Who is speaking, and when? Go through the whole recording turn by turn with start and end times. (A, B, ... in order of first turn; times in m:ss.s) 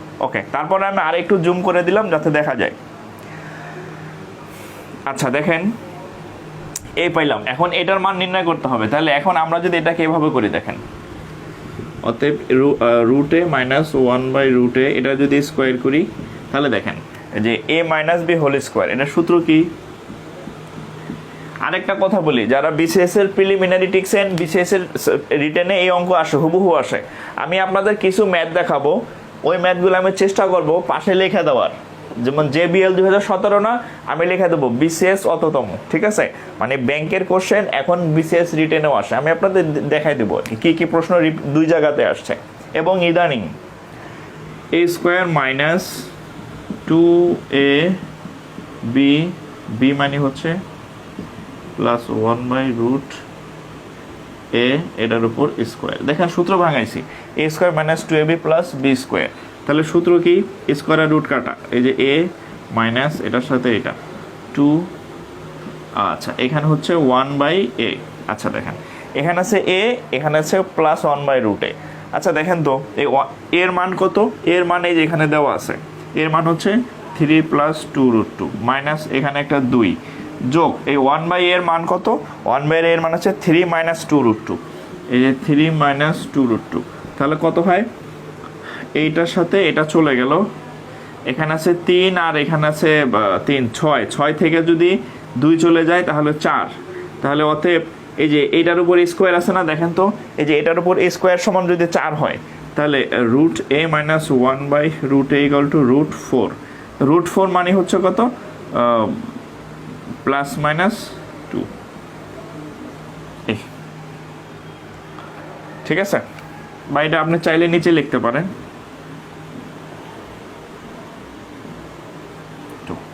0:00.2-0:02.8 A
0:05.1-0:05.7 A
0:07.0-0:10.8 A
0:12.0-0:19.7 A
0:21.6-0:43.5 A
0:44.7-0:46.1 A
0:46.8-0:48.0 A
0:48.8-0:50.6 A
0:51.8-0:53.2 A
0:54.5-1:04.0 A
1:04.5-1:04.9 A
1:06.0-1:24.6 A
1:25.1-1:27.9 A
1:29.0-1:30.4 A
1:31.3-1:49.2 A
1:50.2-1:51.7 A
1:55.8-1:56.2 A
1:56.9-1:58.5 A